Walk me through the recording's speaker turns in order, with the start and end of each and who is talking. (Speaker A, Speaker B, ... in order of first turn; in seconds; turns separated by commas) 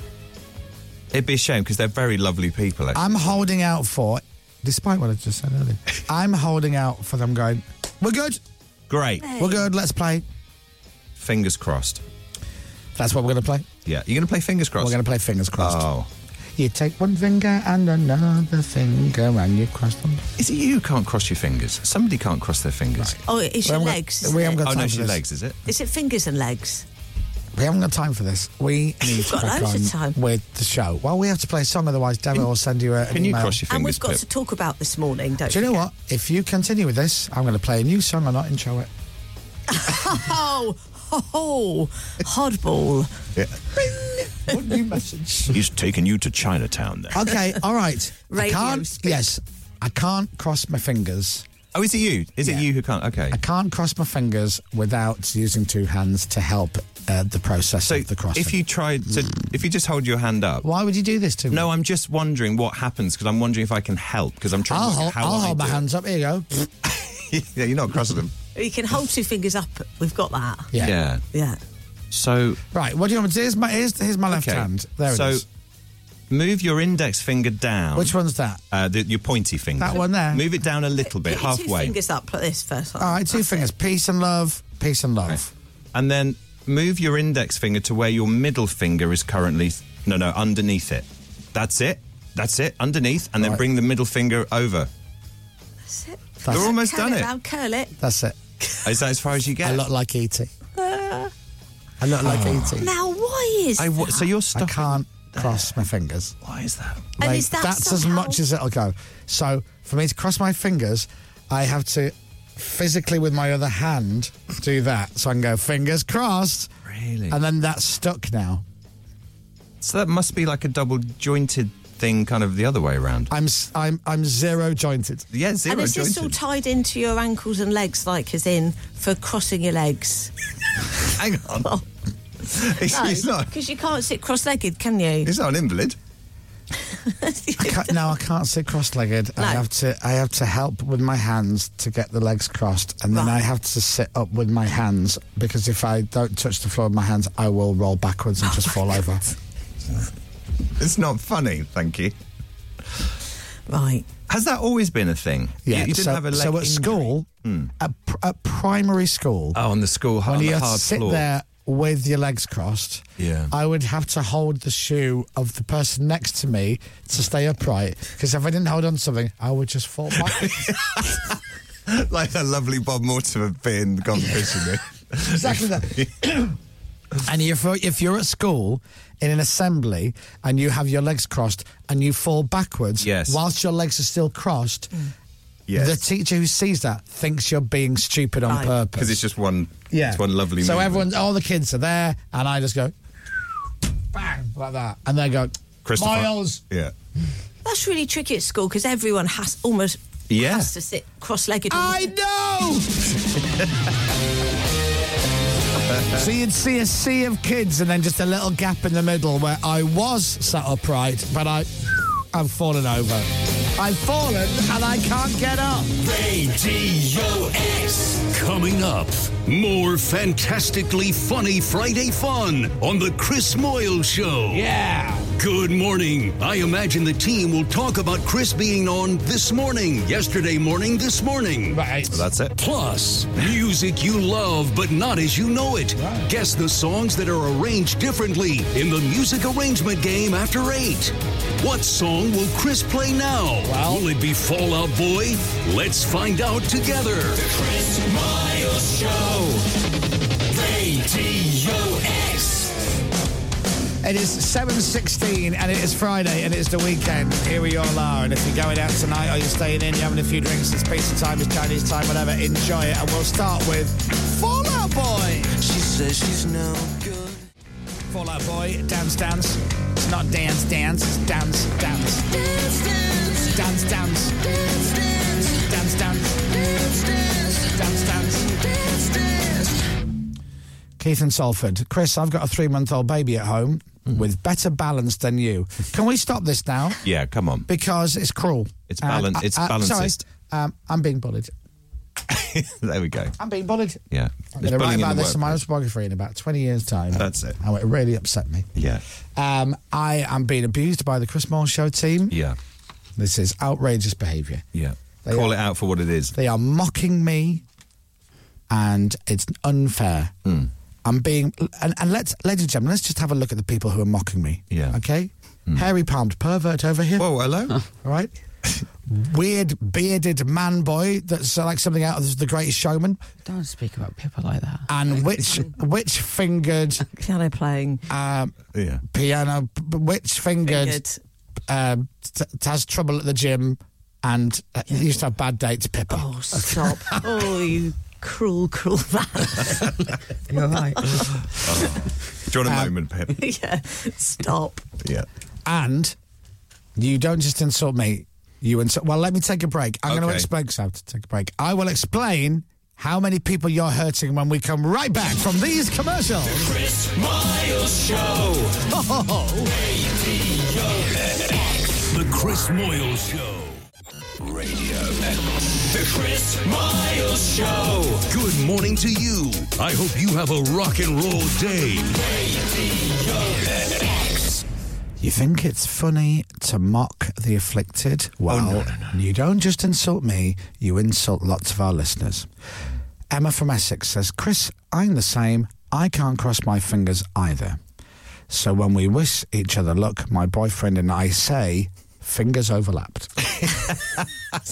Speaker A: 1.1-3.3, Speaker B: 2.9-8.4, Speaker A: 8.9-9.4, Speaker C: 9.2-9.5, Speaker B: 9.3-10.2, Speaker A: 11.2-12.0, Speaker B: 12.9-13.7, Speaker A: 13.8-15.0, Speaker B: 14.8-15.8, Speaker A: 15.6-16.1, Speaker B: 16.6-20.2, Speaker A: 20.4-23.2, Speaker B: 23.0-25.2, Speaker C: 23.2-24.6, Speaker A: 24.6-25.6, Speaker C: 25.6-26.8, Speaker B: 27.5-33.6, Speaker C: 29.1-30.1, Speaker A: 33.1-34.2, Speaker C: 33.7-35.8, Speaker B: 35.5-38.9, Speaker C: 39.7-43.1, Speaker B: 44.4-45.6, Speaker A: 45.5-47.3, Speaker B: 47.1-51.5, Speaker C: 48.3-49.2, Speaker A: 51.7-53.4, Speaker B: 53.3-58.6, Speaker A: 57.9-60.6, Speaker B: 60.6-61.7, Speaker A: 61.5-65.8, Speaker B: 64.7-66.7, Speaker A: 67.2-68.3, Speaker C: 68.5-70.7, Speaker A: 70.8-71.2, Speaker C: 71.3-71.6, Speaker A: 72.1-72.6, Speaker B: 72.7-75.4, Speaker A: 74.3-75.4, Speaker A: 76.3-78.1, Speaker B: 78.0-78.6, Speaker A: 78.7-81.9, Speaker B: 79.8-80.5, Speaker C: 81.1-83.7, Speaker B: 83.0-85.5, Speaker A: 85.9-94.9, Speaker C: 95.9-97.9, Speaker B: 96.4-96.7, Speaker A: 96.5-97.3, Speaker B: 98.0-98.4, Speaker A: 98.8-99.8, Speaker B: 99.6-100.5, Speaker C: 100.8-101.3, Speaker B: 102.0-102.9, Speaker A: 102.2-102.8, Speaker C: 102.8-104.3, Speaker A: 103.8-105.7, Speaker B: 104.5-106.3, Speaker A: 106.4-107.1, Speaker B: 107.2-116.7, Speaker C: 107.2-108.4, Speaker A: 116.9-117.4, Speaker B: 117.3-118.6, Speaker A: 119.8-123.3, Speaker B: 123.3-125.3, Speaker A: 125.3-126.4, Speaker C: 125.7-130.3, Speaker A: 131.1-131.7, Speaker A: 132.5-133.5, Speaker C: 132.9-135.3, Speaker A: 135.2-136.0, Speaker C: 136.9-138.0, Speaker B: 137.6-149.3, Speaker C: 139.4-139.6, Speaker C: 143.1-143.4, Speaker A: 150.8-152.1, Speaker C: 153.7-154.1, Speaker A: 154.3-157.7, Speaker B: 155.7-157.3, Speaker B: 157.8-159.6, Speaker A: 159.5-161.2, Speaker B: 160.2-170.8, Speaker A: 163.2-163.5, Speaker A: 170.2-171.3, Speaker A: 171.9-176.1, Speaker B: 175.3-176.5, Speaker B: 177.2-184.9, Speaker A: 183.0-183.4, Speaker A: 185.7-186.0, Speaker B: 185.7-189.2, Speaker C: 188.5-188.7, Speaker A: 189.0-191.1, Speaker B: 189.9-192.9, Speaker B: 194.1-196.6, Speaker A: 195.8-196.9, Speaker C: 197.6-202.1, Speaker A: 200.3-200.7, Speaker B: 201.7-203.2, Speaker B: 206.1-215.9, Speaker D: 216.0-224.7, Speaker B: 224.5-225.3, Speaker D: 225.4-231.8, Speaker B: 231.7-232.2, Speaker A: 232.1-232.5, Speaker D: 232.6-249.7, Speaker B: 236.0-236.3, Speaker B: 243.6-244.1, Speaker D: 250.5-252.8, Speaker B: 254.0-265.6, Speaker D: 265.7-267.1, Speaker B: 268.1-272.4, Speaker B: 273.2-279.3, Speaker B: 281.0-287.0, Speaker A: 287.0-287.7, Speaker B: 287.7-291.5, Speaker A: 288.9-290.2, Speaker A: 292.3-293.3, Speaker B: 293.4-294.0, Speaker A: 294.1-295.6, Speaker B: 294.6-298.7, Speaker A: 297.1-297.6, Speaker A: 298.8-299.0, Speaker B: 299.4-302.4, Speaker A: 302.3-302.6, Speaker B: 303.2-304.6, Speaker A: 304.7-306.3, Speaker B: 305.2-305.6, Speaker B: 306.3-307.6, Speaker B: 308.7-310.3, Speaker B: 311.0-317.3, Speaker A: 314.7-315.0, Speaker A: 317.2-317.8, Speaker B: 318.0-318.3, Speaker B: 319.1-323.2, Speaker E: 323.4-324.9, Speaker B: 324.9-327.0, Speaker C: 327.1-328.0, Speaker B: 328.1-328.6, Speaker A: 328.7-329.0, Speaker B: 329.1-331.0, Speaker C: 330.6-331.2, Speaker B: 331.7-337.0, Speaker C: 336.1-340.0, Speaker E: 340.5-341.1, Speaker A: 341.5-343.4, Speaker B: 342.6-342.9, Speaker C: 343.4-344.8, Speaker B: 345.6-346.1, Speaker B: 347.0-356.8, Speaker A: 350.1-350.5, Speaker D: 356.9-358.4, Speaker B: 358.8-359.7, Speaker D: 360.8-363.8, Speaker D: 364.5-372.5, Speaker D: 373.3-374.6, Speaker B: 375.2-382.5, Speaker A: 378.5-379.1, Speaker B: 383.3-387.8, Speaker B: 388.5-393.3, Speaker A: 393.6-394.2